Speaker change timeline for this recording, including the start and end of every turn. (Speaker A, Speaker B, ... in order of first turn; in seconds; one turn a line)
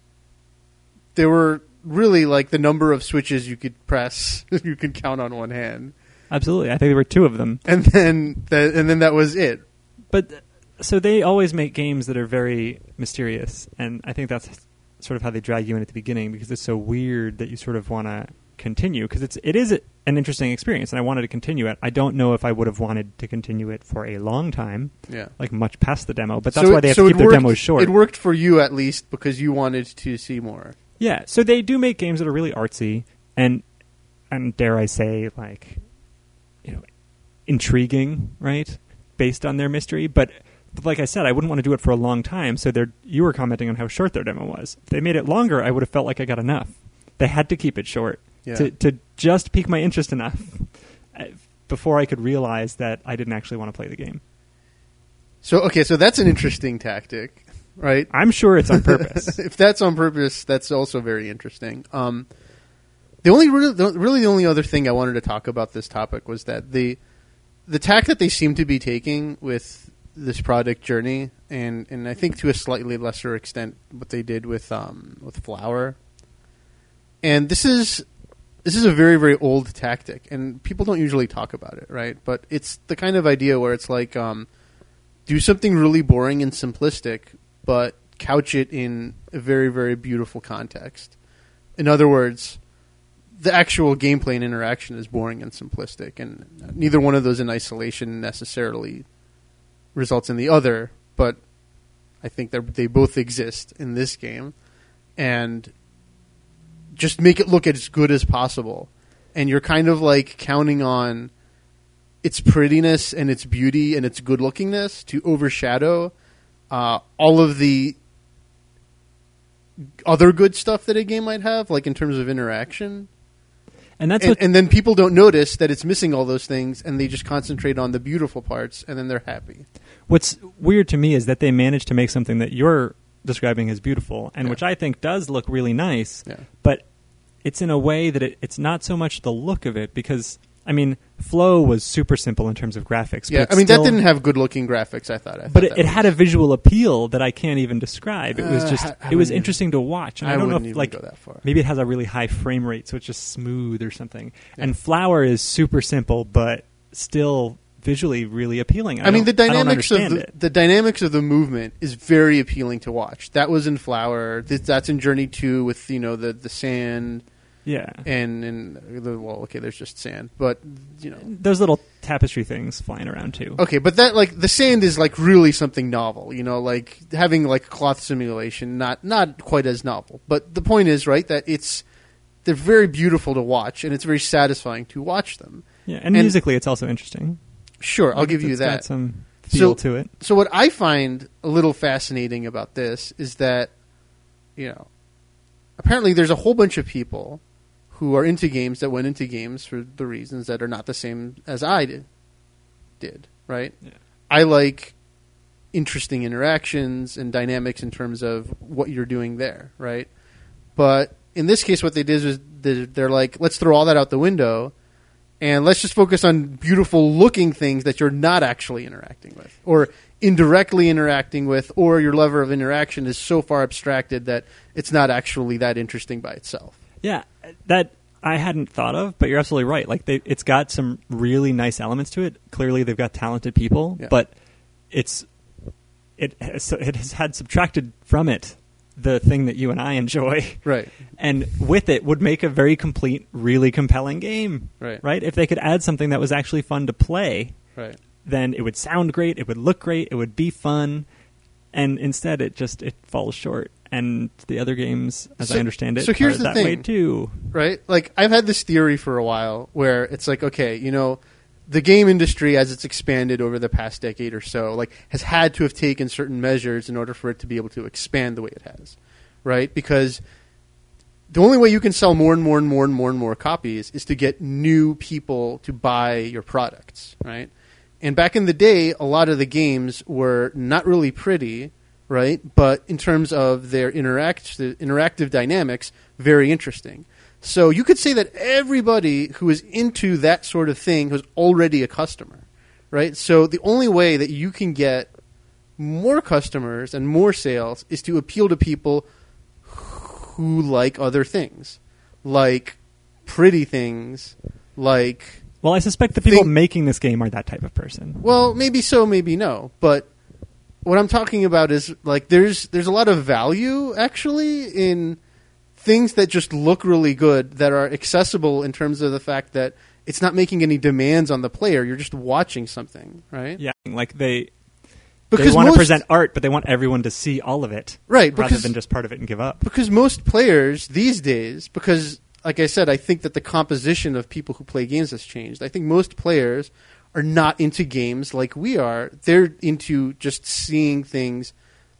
Speaker A: 1.1-5.9
Speaker B: 6.3-7.6
Speaker A: 7.6-9.6
Speaker B: 10.1-27.9
Speaker A: 25.1-25.3
Speaker A: 26.5-30.7
Speaker B: 31.0-33.6
Speaker B: 34.3-35.9
Speaker B: 36.6-54.2
Speaker A: 48.4-48.7
Speaker A: 55.4-62.3
Speaker B: 58.1-59.4
Speaker A: 63.2-67.0
Speaker A: 67.7-76.0
Speaker A: 77.2-78.0
Speaker A: 78.6-84.5
Speaker A: 85.2-91.1
Speaker A: 91.8-92.6
Speaker A: 93.3-99.0
Speaker A: 99.9-101.4
Speaker A: 102.2-104.5
Speaker A: 105.2-105.7
Speaker A: 106.9-111.3
Speaker A: 112.2-116.1
Speaker A: 116.7-118.0
Speaker A: 120.0-123.1
Speaker B: 124.0-124.4
Speaker A: 124.2-129.7
Speaker B: 130.1-144.0
Speaker A: 143.3-146.1
Speaker B: 145.5-160.3
Speaker A: 148.3-149.6
Speaker A: 150.2-151.4
Speaker A: 159.0-167.2
Speaker B: 167.6-168.1
Speaker A: 168.0-171.2
Speaker B: 171.2-173.6
Speaker A: 173.6-181.8
Speaker A: 182.4-186.3
Speaker B: 185.8-187.4
Speaker A: 187.8-193.7
Speaker B: 188.1-190.1
Speaker A: 194.6-194.9
Speaker A: 195.8-202.1
Speaker A: 203.0-203.8
Speaker A: 204.3-204.9
Speaker A: 205.7-210.1
Speaker A: 210.8-214.7
Speaker A: 215.4-226.8
Speaker B: 227.0-234.4
Speaker B: 234.9-235.3
Speaker B: 236.2-247.6
Speaker A: 240.6-240.9
Speaker B: 248.2-251.1
Speaker B: 251.7-257.5
Speaker A: 255.4-256.9
Speaker A: 257.5-270.2
Speaker A: 271.3-277.5
Speaker A: 278.0-295.1
Speaker A: 295.8-299.1
Speaker A: 299.6-305.4
Speaker B: 305.6-308.2
Speaker A: 306.2-306.5
Speaker A: 308.2-310.1
Speaker A: 310.8-315.2
Speaker A: 315.8-323.6
Speaker B: 323.6-324.5
Speaker A: 325.3-326.0
Speaker B: 325.3-329.6
Speaker A: 328.1-328.7
Speaker A: 329.6-341.5